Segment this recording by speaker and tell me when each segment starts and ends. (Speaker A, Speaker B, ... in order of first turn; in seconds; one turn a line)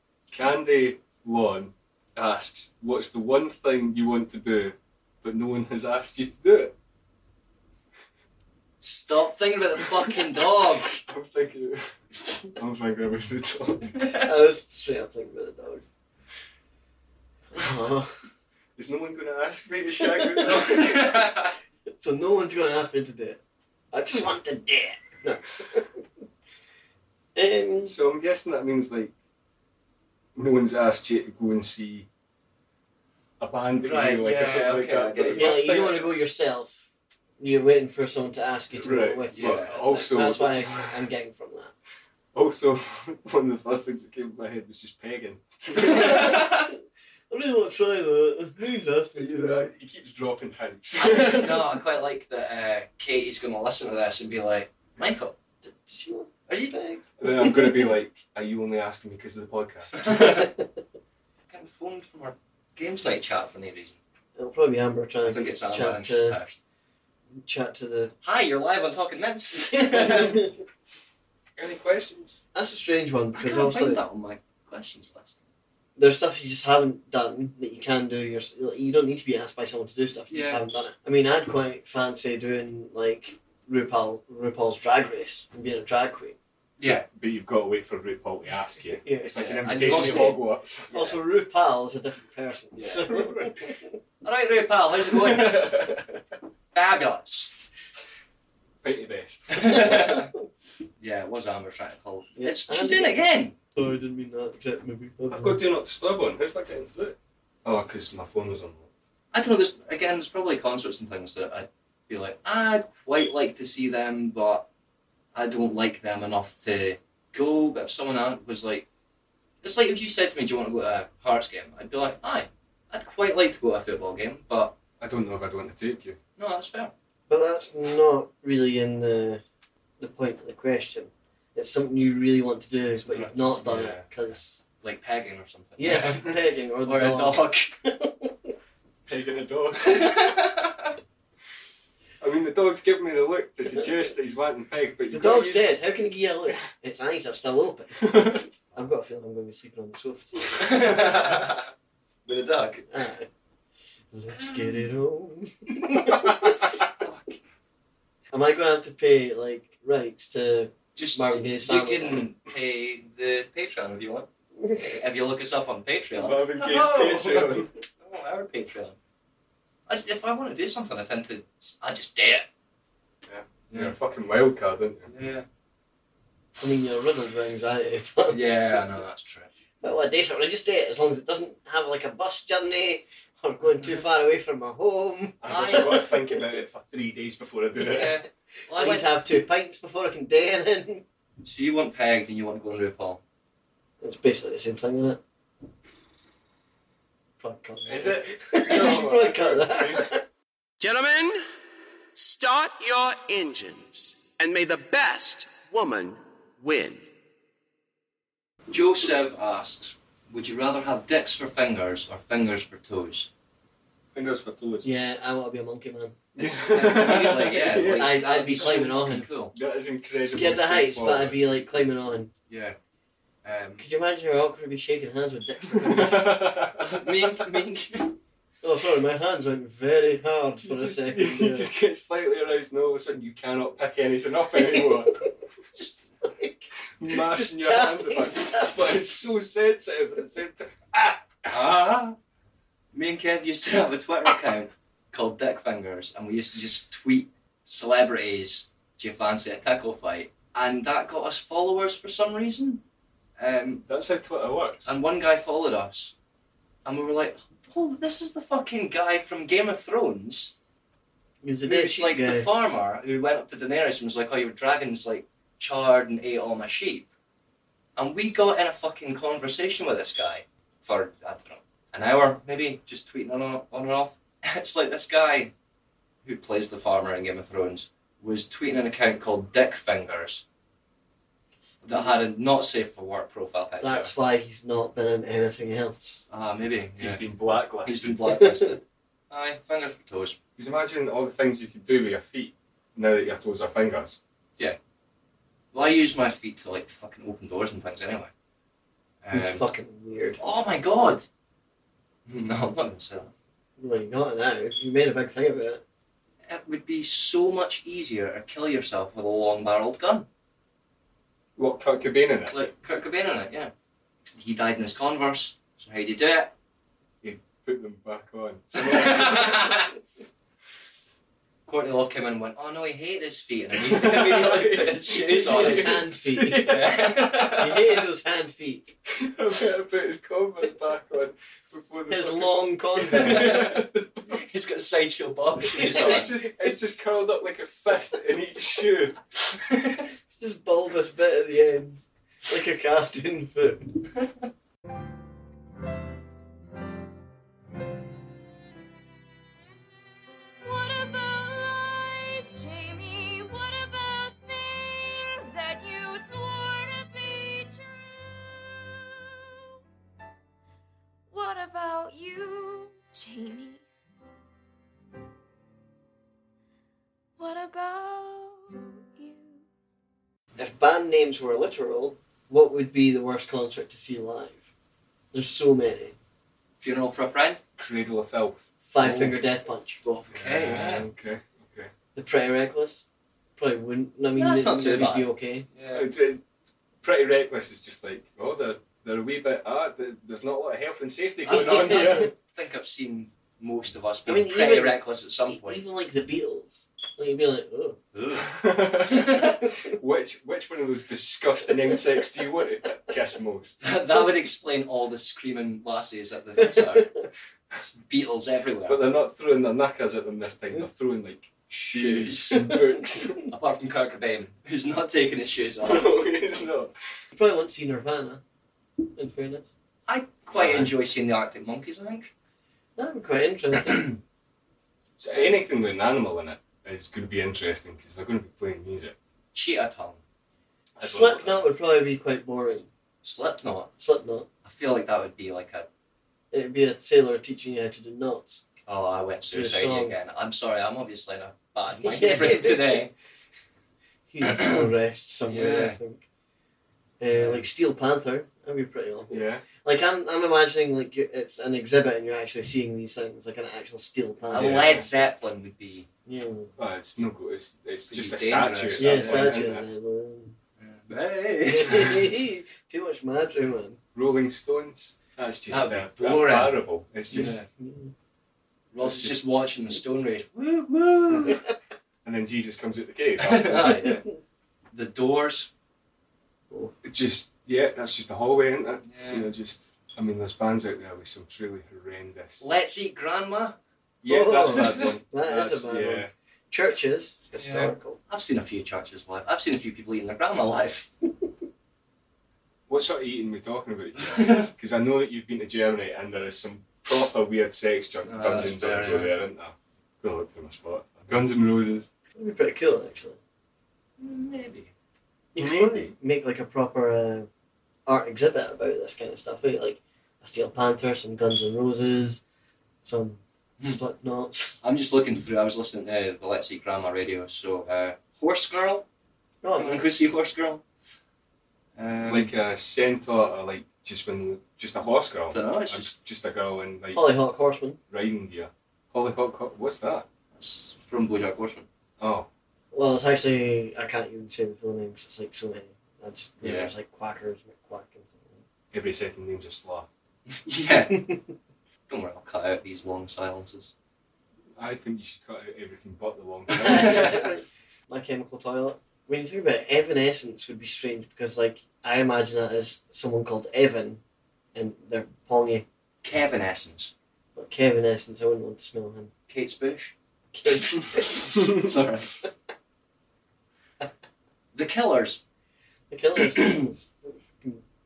Speaker A: 0.3-6.7
Speaker B: 8.8-10.9
Speaker A: 10.9-11.8
Speaker A: 12.5-14.1
Speaker C: 14.2-15.8
Speaker C: 17.5-18.2
Speaker A: 18.8-21.1
Speaker C: 20.2-20.6
Speaker B: 20.4-21.5
Speaker C: 21.9-23.4
Speaker C: 23.9-26.0
Speaker C: 27.3-27.9
Speaker A: 27.8-29.1
Speaker A: 30.4-32.1
Speaker A: 33.4-36.1
Speaker B: 33.8-35.8
Speaker C: 35.3-36.8
Speaker C: 37.4-41.7
Speaker A: 38.8-40.9
Speaker B: 39.3-40.0
Speaker A: 42.3-46.5
Speaker C: 45.8-46.8
Speaker C: 47.3-49.7
Speaker A: 49.1-51.6
Speaker B: 51.0-55.3
Speaker C: 55.6-57.9
Speaker B: 56.5-56.8
Speaker A: 57.2-59.9
Speaker B: 60.0-60.5
Speaker C: 60.0-60.7
Speaker B: 61.5-64.0
Speaker C: 64.3-66.4
Speaker B: 65.2-66.6
Speaker C: 67.3-68.1
Speaker B: 68.2-70.4
Speaker C: 69.5-70.6
Speaker A: 71.6-72.4
Speaker C: 72.5-74.0
Speaker B: 73.3-75.4
Speaker C: 76.0-86.4
Speaker B: 80.3-80.6
Speaker A: 86.8-90.9
Speaker C: 88.9-90.4
Speaker B: 89.3-91.2
Speaker C: 90.9-93.9
Speaker A: 93.1-93.5
Speaker B: 94.2-95.8
Speaker A: 95.2-96.1
Speaker B: 96.7-97.5
Speaker A: 98.8-99.8
Speaker B: 99.5-100.3
Speaker C: 99.7-100.3
Speaker B: 101.0-103.5
Speaker C: 102.3-105.6
Speaker A: 105.3-108.9
Speaker B: 109.3-114.7
Speaker B: 115.3-118.9
Speaker B: 119.6-124.8
Speaker A: 125.0-126.2
Speaker B: 126.4-126.9
Speaker C: 127.3-129.4
Speaker C: 130.0-134.6
Speaker B: 133.0-134.1
Speaker B: 134.8-136.3
Speaker C: 135.8-138.5
Speaker B: 136.8-137.7
Speaker A: 139.1-140.3
Speaker B: 139.8-140.9
Speaker A: 142.2-145.7
Speaker C: 145.1-151.2
Speaker A: 148.0-148.5
Speaker B: 150.6-151.7
Speaker B: 152.2-152.8
Speaker C: 152.9-153.3
Speaker C: 154.1-156.7
Speaker B: 154.3-154.6
Speaker B: 155.9-156.1
Speaker B: 157.0-157.2
Speaker C: 158.3-162.2
Speaker B: 160.9-164.3
Speaker C: 164.6-164.9
Speaker B: 164.8-168.9
Speaker A: 166.1-167.7
Speaker B: 169.9-172.5
Speaker A: 173.3-175.1
Speaker B: 175.1-175.4
Speaker C: 176.6-178.8
Speaker B: 178.3-179.6
Speaker C: 179.8-186.4
Speaker A: 185.4-188.1
Speaker B: 185.4-185.9
Speaker B: 187.8-189.1
Speaker C: 187.8-188.1
Speaker C: 188.7-191.0
Speaker B: 191.4-193.2
Speaker C: 194.0-195.2
Speaker C: 197.4-200.2
Speaker A: 197.8-200.1
Speaker D: 200.8-201.4
Speaker D: 202.1-207.1
Speaker B: 208.7-213.3
Speaker A: 214.1-214.9
Speaker C: 214.8-216.3
Speaker A: 216.4-218.9
Speaker B: 216.4-219.5
Speaker C: 217.7-219.3
Speaker A: 219.5-221.4
Speaker C: 220.2-222.3
Speaker B: 222.5-222.8
Speaker B: 223.4-223.8
Speaker C: 223.8-226.5
Speaker A: 225.7-226.8
Speaker B: 226.8-228.2
Speaker C: 228.6-231.7
Speaker A: 230.6-235.2
Speaker C: 234.6-235.1
Speaker C: 236.2-238.9
Speaker A: 237.0-241.5
Speaker B: 241.5-242.1
Speaker B: 242.9-252.8
Speaker B: 253.4-253.8
Speaker A: 253.8-254.9
Speaker B: 254.8-256.1
Speaker B: 256.8-260.5
Speaker C: 261.4-262.5
Speaker B: 261.6-267.1
Speaker B: 267.9-275.5
Speaker B: 276.2-280.4
Speaker B: 281.8-284.1
Speaker C: 283.8-286.2
Speaker B: 286.3-287.2
Speaker A: 287.0-288.3
Speaker B: 287.8-290.4
Speaker C: 288.3-288.8
Speaker A: 290.6-294.2
Speaker B: 295.7-298.3
Speaker B: 299.2-299.6
Speaker C: 299.3-300.4
Speaker B: 300.4-301.3
Speaker B: 302.2-303.3
Speaker C: 303.8-305.8
Speaker B: 306.4-310.3
Speaker A: 311.6-312.6
Speaker B: 312.5-313.7
Speaker B: 314.2-316.5
Speaker A: 317.2-319.8
Speaker B: 318.7-319.9
Speaker B: 321.6-326.0
Speaker A: 323.9-327.6
Speaker C: 325.3-326.8
Speaker B: 326.5-327.8
Speaker C: 327.5-328.9
Speaker A: 329.2-334.2
Speaker C: 332.1-333.7
Speaker B: 333.2-336.3
Speaker C: 335.8-336.2
Speaker A: 335.8-339.2
Speaker B: 339.7-340.0
Speaker C: 340.3-344.0
Speaker E: 350.6-359.0
Speaker E: 361.3-363.8
Speaker E: 367.4-369.6
Speaker C: 370.6-374.6
Speaker C: 375.3-376.1
Speaker B: 376.8-377.6
Speaker A: 377.8-379.4
Speaker C: 378.9-380.3
Speaker B: 380.3-381.1
Speaker A: 380.3-381.9
Speaker C: 382.1-383.0
Speaker C: 383.6-385.6
Speaker B: 384.4-386.1
Speaker A: 385.9-386.4
Speaker A: 387.0-392.3
Speaker B: 391.4-395.8
Speaker C: 391.5-392.3
Speaker C: 394.2-398.0
Speaker B: 398.1-398.5
Speaker A: 398.4-403.8
Speaker B: 403.8-407.1
Speaker C: 406.6-407.3
Speaker B: 407.9-409.0
Speaker A: 408.9-413.5
Speaker B: 411.9-412.7
Speaker B: 413.5-416.1
Speaker A: 415.8-416.9
Speaker C: 417.3-418.4
Speaker C: 419.1-419.7
Speaker B: 420.1-422.3
Speaker A: 420.5-420.9
Speaker C: 422.9-424.1
Speaker A: 425.2-429.1
Speaker B: 429.5-430.2
Speaker A: 431.0-431.7
Speaker C: 431.0-432.9
Speaker B: 433.2-433.9
Speaker C: 434.0-434.5
Speaker B: 434.6-435.9
Speaker C: 436.5-438.6
Speaker B: 438.9-443.1
Speaker C: 439.5-440.1
Speaker C: 442.0-443.1
Speaker C: 444.3-446.2
Speaker B: 444.4-444.8
Speaker B: 445.5-446.0
Speaker C: 447.2-455.0
Speaker B: 447.3-447.6
Speaker A: 449.3-449.6
Speaker B: 454.5-456.1
Speaker A: 454.5-455.1
Speaker C: 456.2-456.7
Speaker A: 456.8-459.9
Speaker B: 457.9-459.6
Speaker C: 459.0-460.6
Speaker B: 460.8-462.3
Speaker C: 461.7-464.0
Speaker A: 464.1-467.6
Speaker B: 465.7-466.8
Speaker C: 467.3-468.1
Speaker B: 467.3-467.6
Speaker B: 468.9-471.6
Speaker A: 469.0-469.3
Speaker A: 472.2-474.0
Speaker B: 473.4-474.2
Speaker C: 473.8-474.4
Speaker B: 474.9-475.7
Speaker C: 476.7-476.9
Speaker A: 477.0-482.6
Speaker B: 479.0-479.5
Speaker B: 482.6-483.8
Speaker A: 484.2-486.3
Speaker C: 484.2-488.2
Speaker B: 484.7-485.1
Speaker B: 487.5-491.1
Speaker A: 492.9-502.1
Speaker B: 494.2-494.7
Speaker B: 498.2-499.3
Speaker C: 502.3-503.4
Speaker B: 504.2-504.9
Speaker C: 505.5-507.5
Speaker A: 505.6-506.1
Speaker C: 508.1-512.4
Speaker C: 513.0-514.8
Speaker B: 514.8-519.0
Speaker C: 519.6-520.1
Speaker B: 519.8-520.8
Speaker B: 522.0-522.5
Speaker A: 522.2-527.3
Speaker B: 525.5-526.1
Speaker C: 527.1-528.0
Speaker A: 528.1-530.3
Speaker B: 530.5-531.9
Speaker A: 532.2-532.5
Speaker C: 532.9-538.7
Speaker B: 536.6-536.9
Speaker A: 538.9-540.1
Speaker B: 540.5-541.2
Speaker C: 541.1-541.4
Speaker B: 542.1-543.9
Speaker A: 544.8-547.4
Speaker B: 546.8-547.4
Speaker C: 546.8-554.2
Speaker C: 554.7-555.9
Speaker B: 556.2-557.1
Speaker C: 557.5-559.3
Speaker B: 559.5-560.1
Speaker C: 560.5-561.9
Speaker B: 561.0-562.3
Speaker B: 564.7-565.4
Speaker C: 566.1-567.8